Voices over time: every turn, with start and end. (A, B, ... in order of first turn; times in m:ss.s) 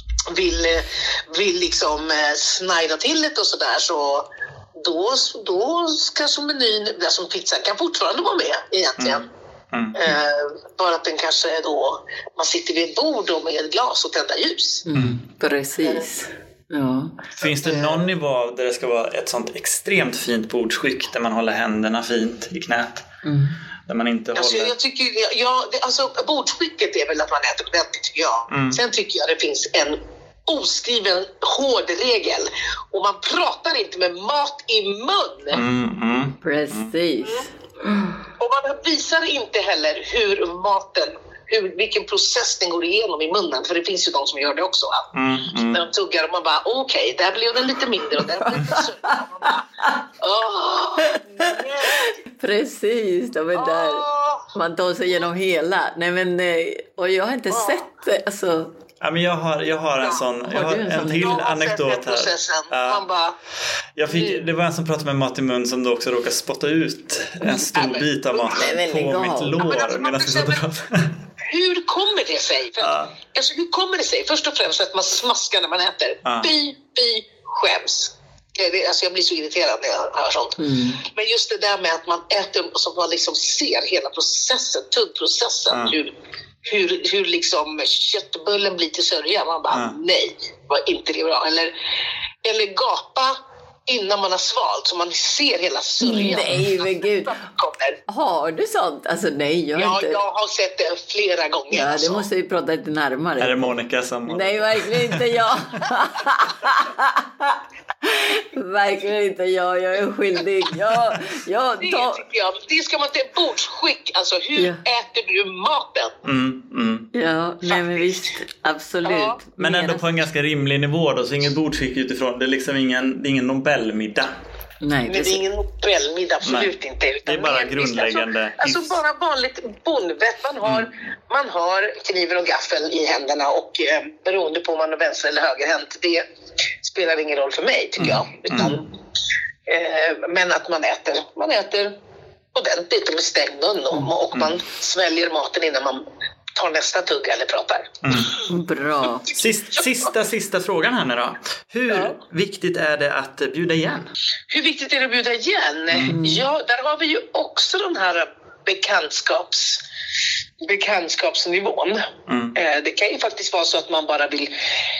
0:00.3-0:09.2 A
0:09.0-0:10.0 B
0:09.9-0:14.8 A
0:14.8-0:17.2 C
0:17.4-0:23.1 B
0:23.2-0:23.6 C
0:23.9-0:24.7 B
0:24.3-0:35.6 A
0:28.5-0:28.8 B
0:35.5-0:36.9 B
0:36.4-0:38.1 C
0:38.4-0:45.1 A
0:45.1-0:45.8 B
0:45.7-0:49.6 A
0:48.2-0:50.0 C
0:50.2-0:52.1 A
0:51.0-0:58.7 C
0:53.5-0:54.5 A
0:57.5-0:57.8 A
0:59.0-1:03.0 B
1:00.4-1:01.4 C
1:01.2-1:03.4 A
1:04.0-1:11.2 B
1:04.1-1:04.4 A
1:07.7-1:08.5 A
1:08.4-1:09.6 C
1:09.6-1:10.6 A
1:11.4-1:26.1 A
1:12.8-1:13.1 B
1:16.2-1:16.5 B
1:20.6-1:21.0 C
1:25.7-1:26.0 B
1:26.6-1:31.7 A
1:29.7-1:30.0 B
1:32.4-1:38.0 A
1:36.0-1:37.4 C
1:38.1-1:40.2 C
1:39.8-1:42.2 A
1:41.7-1:43.7 C
1:43.4-1:45.4 B
1:44.3-1:52.2 C
1:51.8-1:56.2 A
1:54.6-1:54.8 C
1:56.2-1:57.1 B
1:57.1-2:00.0 C
1:57.7-1:58.2 A
1:59.0-1:59.4 A
1:59.6-2:04.3 B
2:04.8-2:05.4 C
2:05.1-2:16.2 A
2:06.4-2:06.7 B
2:07.2-2:09.0 B
2:16.8-2:18.9 A
2:18.0-2:18.8 B
2:19.6-2:21.9 A
2:22.5-2:26.0 A
2:26.5-2:28.0 A
2:28.0-2:28.4 B
2:28.4-2:29.3 C
2:29.3-2:34.1 B
2:34.5-2:39.8 A
2:35.9-2:36.1 B
2:36.1-2:36.4 C
2:40.6-2:44.5 A
2:42.3-2:42.6 B